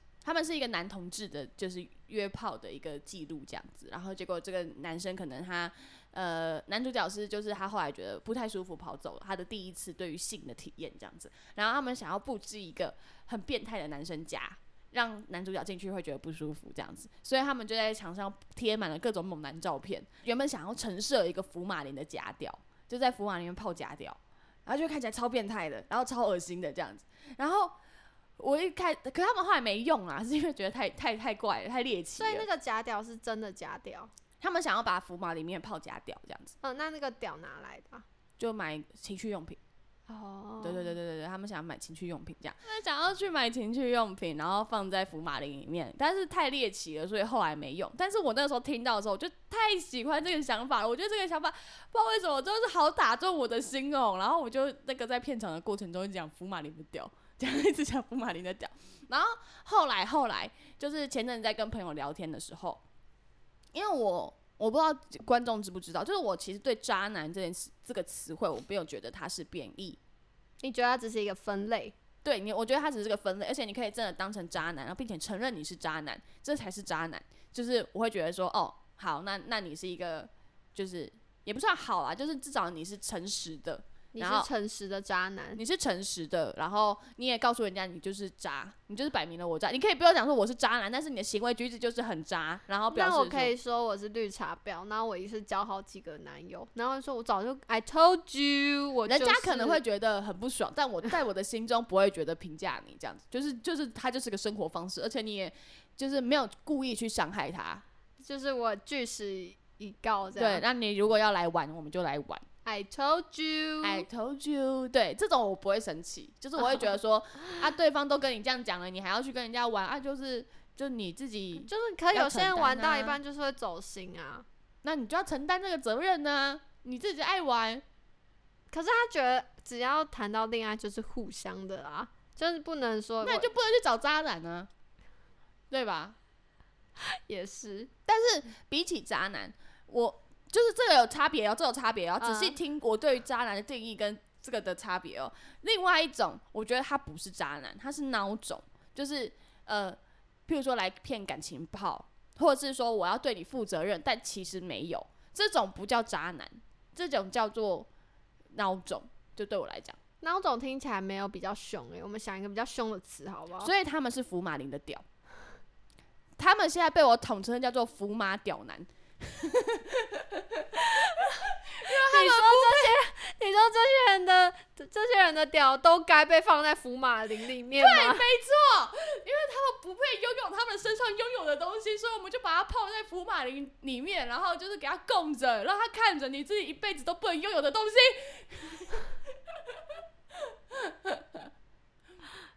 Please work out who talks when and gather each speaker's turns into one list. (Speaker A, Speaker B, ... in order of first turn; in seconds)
Speaker A: 0.2-27.8, 28.4-32.5, 34.4-36.5, 38.4-39.6, 40.6-62.8, 63.7-70.0, 72.2-84.5, 85.5-93.5, 99.1-107.8, 110.3-112.4, 113.8-123.2, 124.8-127.8, 133.2-134.7, 135.7-136.2, 138.1-157.9, 158.5-160.0, 163.6-165.0, 166.4-172.9, 177.8-191.5
Speaker B: 32.2-34.1, 36.6-38.0, 40.1-40.9, 70.6-71.9, 84.1-85.6, 92.9-99.8, 108.2-110.6, 112.6-114.0, 116.6-117.6, 121.6-124.5, 128.7-133.5, 137.0-137.9, 142.2-142.6, 160.2-163.7, 170.7-178.2